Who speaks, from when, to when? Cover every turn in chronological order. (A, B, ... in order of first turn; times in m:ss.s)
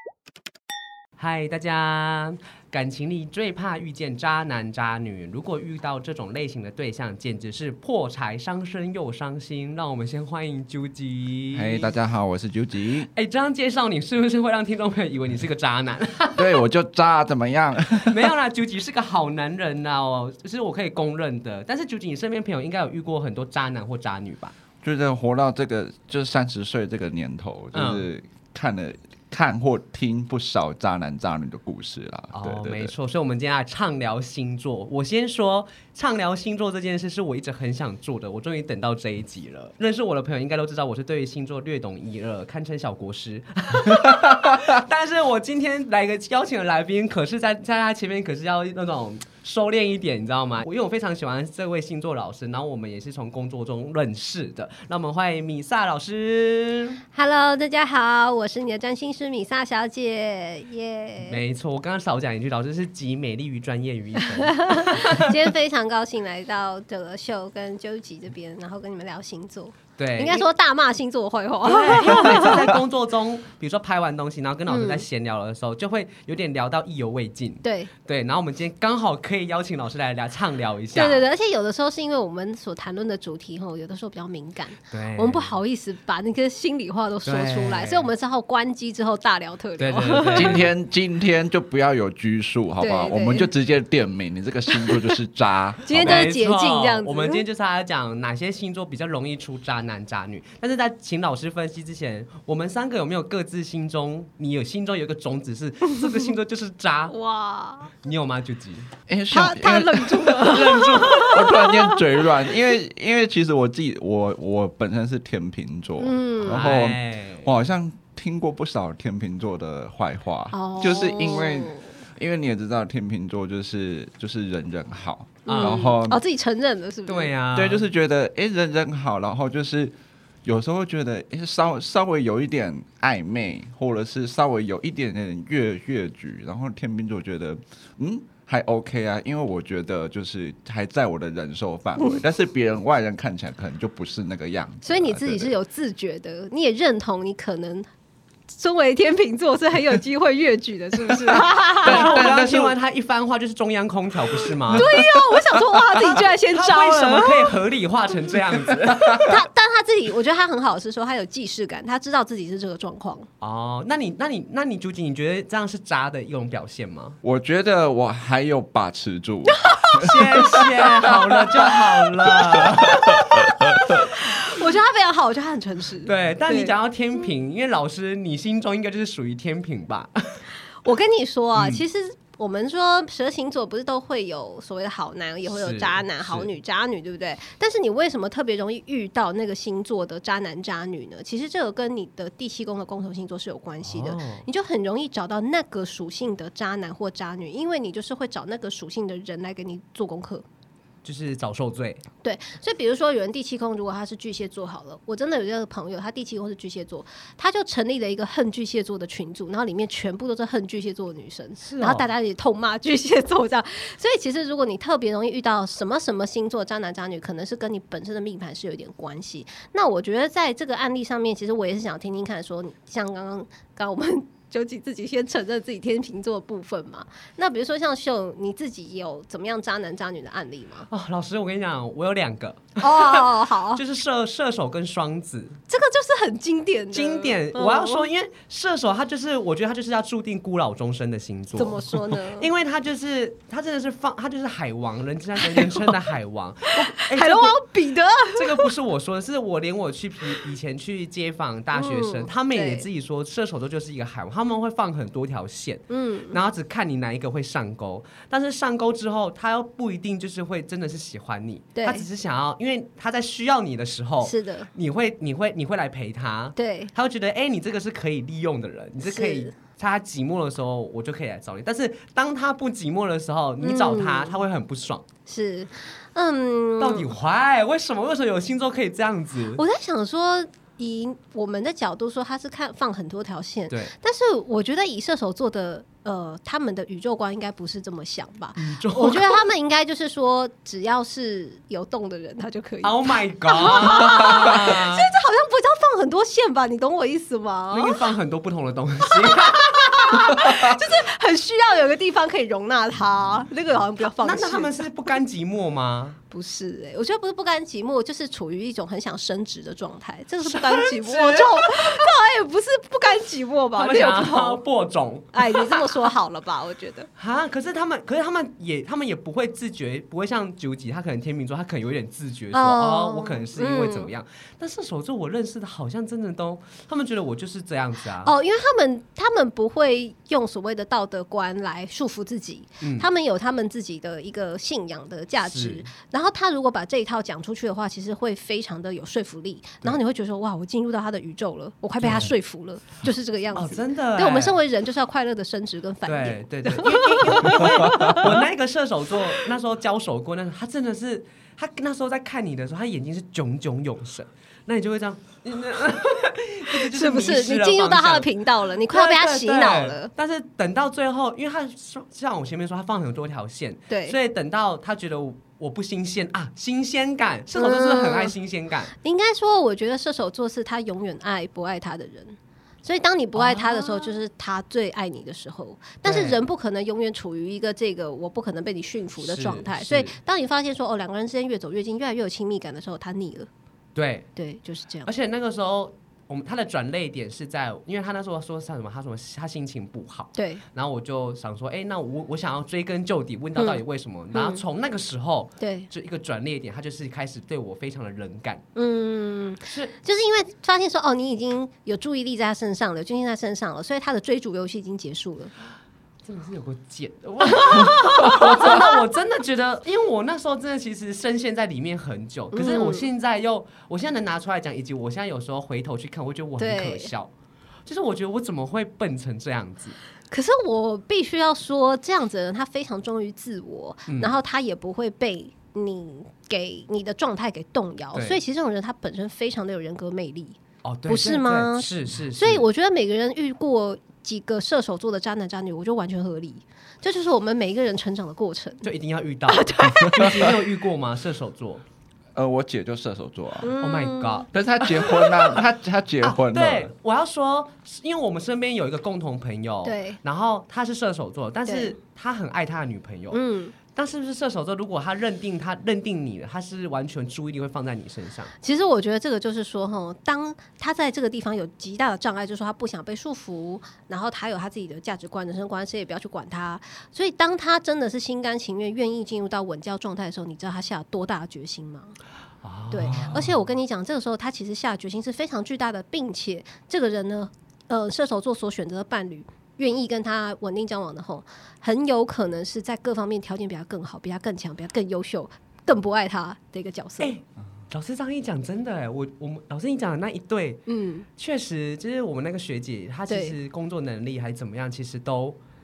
0:01.2-0:11.9 A
0:11.5-0:13.1 B
0:13.1-0:16.6 A
0:16.4-0:18.3 B
0:18.0-0:24.5 A
0:24.8-0:32.9 B
0:27.7-0:28.1 A
0:32.3-0:57.0 A
0:57.1-1:01.4 C
1:01.2-1:05.5 A
1:04.6-1:12.7 C
1:10.0-1:10.4 A
1:11.6-1:21.2 A
1:14.7-1:15.0 C
1:17.6-1:17.9 C
1:20.9-1:30.7 C
1:24.9-1:25.5 A
1:27.2-1:28.1 A
1:29.8-1:30.6 A
1:30.4-1:36.3 B
1:32.8-1:33.5 C
1:34.7-1:35.1 C
1:35.8-1:37.4 C
1:36.0-1:47.2 A
1:47.1-1:48.0 C
1:48.0-1:48.9 A
1:49.1-2:06.2 B
1:49.3-1:52.5 C
1:50.4-1:51.4 A
1:56.0-1:56.7 C
1:56.4-1:57.5 A
2:00.5-2:01.9 C
2:05.4-2:05.8 A
2:05.4-2:07.3 C
2:07.1-2:07.8 A
2:07.5-2:25.5 B
2:24.8-2:27.9 C
2:28.5-2:32.2 C
2:31.4-2:32.7 B
2:31.7-2:34.9 A
2:34.7-2:37.5 C
2:34.8-2:35.6 B
2:36.1-2:39.4 A
2:39.2-2:43.3 C
2:43.4-2:47.2 A
2:47.2-2:50.6 B
2:49.5-2:50.1 C
2:50.0-2:53.2 A
2:52.6-2:54.0 B
2:52.8-2:56.7 C
2:56.0-3:00.4 A
3:00.8-3:20.4 C
3:01.5-3:01.8 A
3:05.5-3:06.5 A
3:13.8-3:14.4 A
3:21.0-3:22.0 A
3:22.2-3:50.9 C
3:31.6-3:32.1 A
3:50.9-3:55.6 A
3:52.8-3:53.8 C
3:55.7-3:58.1 C
3:56.9-4:07.6 A
4:01.6-4:02.5 C
4:05.4-4:05.8 C
4:07.0-4:08.7 C
4:08.3-4:35.0 A
4:11.7-4:12.8 C
4:15.9-4:16.4 C
4:21.8-4:22.0 C
4:24.2-4:24.7 C
4:26.6-4:26.9 C
4:29.0-4:29.5 C
4:33.6-4:34.3 C
4:35.3-4:37.1 C
4:36.8-4:39.6 A
4:39.6-4:58.0 C
4:48.6-4:49.4 A
4:52.8-4:55.1 A
4:57.7-5:00.7 A
4:59.1-5:05.1 C
5:04.0-5:06.2 A
5:06.3-5:14.6 C
5:10.4-5:12.0 A
5:13.8-5:16.1 A
5:15.3-5:17.1 C
5:17.2-5:28.3 A
5:22.5-5:24.1 C
5:28.2-5:48.4 C
5:32.8-5:33.1 A
5:35.4-5:35.9 A
5:42.0-5:42.3 A
5:43.5-5:44.6 A
5:46.0-5:58.3 A
5:56.7-6:00.1 C
5:58.8-6:08.9 A
6:03.9-6:04.2 C
6:07.6-6:08.3 C
6:09.0-6:23.5 C
6:13.3-6:14.2 A
6:16.0-6:16.4 A
6:19.2-6:20.2 A
6:24.0-6:24.3 A
6:24.4-6:25.1 C
6:25.0-6:38.6 A
6:30.4-6:30.6 C
6:33.6-6:34.6 C
6:35.6-6:35.9 C
6:38.7-6:45.5 C
6:46.2-6:57.3 A
6:47.6-6:48.9 C
6:52.5-6:53.1 C
6:56.6-6:57.1 C
6:57.8-7:00.0 A
7:00.3-7:18.8 C
7:04.1-7:04.3 A
7:08.1-7:08.4 A
7:10.8-7:12.6 A
7:18.8-7:21.8 A
7:19.5-7:20.6 C
7:22.3-7:23.7 B
7:23.6-7:24.4 C
7:23.8-7:25.6 A
7:24.5-7:26.9 B
7:26.2-7:38.5 A
7:29.8-7:30.2 C
7:31.6-7:31.9 C
7:33.3-7:33.8 C
7:38.6-7:52.2 C
7:52.6-7:53.5 A
7:52.9-8:07.3 C
8:07.2-8:10.8 A
8:10.9-8:11.3 C
8:11.4-8:15.6 A
8:13.3-8:13.5 C